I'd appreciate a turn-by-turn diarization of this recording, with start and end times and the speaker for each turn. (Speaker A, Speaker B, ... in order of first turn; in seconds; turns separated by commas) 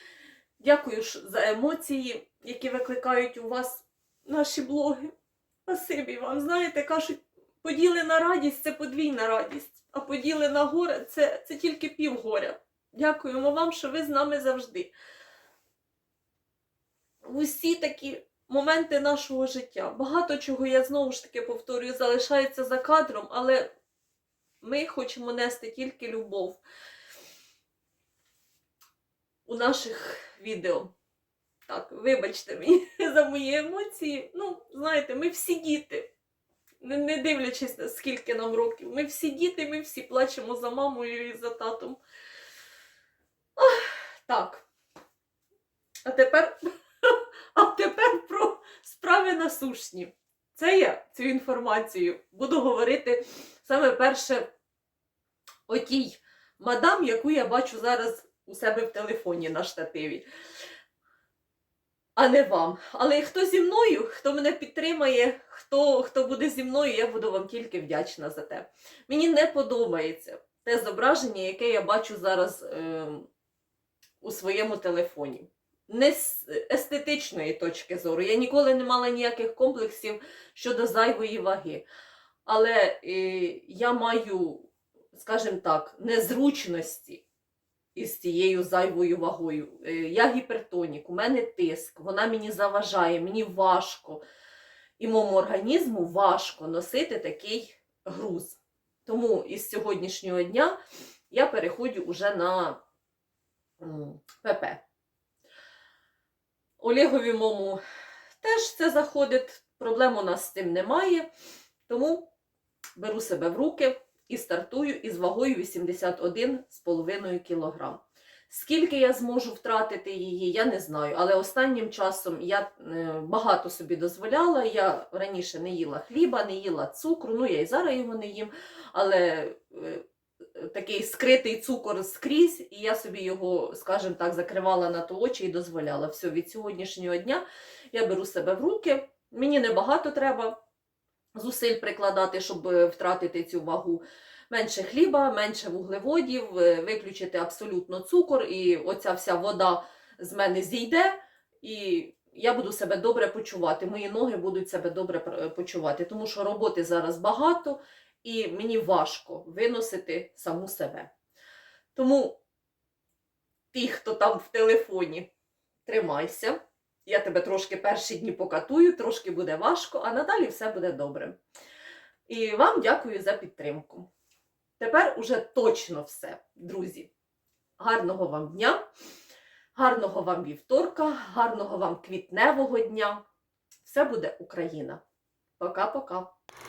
Speaker A: 0.6-5.1, Speaker A: 5.7-14.9, Speaker A: 17.2-23.7, Speaker A: 24.6-26.6, Speaker A: 29.4-30.9, Speaker A: 31.6-36.1, Speaker A: 36.8-42.0, Speaker A: 43.5-44.6, Speaker A: 46.0-54.5, Speaker A: 55.7-60.2, Speaker A: 62.1-73.3, Speaker A: 74.2-81.8, Speaker A: 82.5-87.2, Speaker A: 87.9-94.2, Speaker A: 95.0-100.8, Speaker A: 101.3-102.8, Speaker A: 103.8-104.8, Speaker A: 106.8-107.8, Speaker A: 108.4-111.3, Speaker A: 111.9-112.3, Speaker A: 113.0-130.0, Speaker A: 130.6-140.6, Speaker A: 141.3-161.1, Speaker A: 161.9-162.4, Speaker A: 163.7-165.3, Speaker A: 165.8-171.4, Speaker A: 172.3-174.1, Speaker A: 174.8-177.1, Speaker A: 177.8-178.8, Speaker A: 179.7-183.2, Speaker A: 183.8-185.0, Speaker A: 185.6-186.3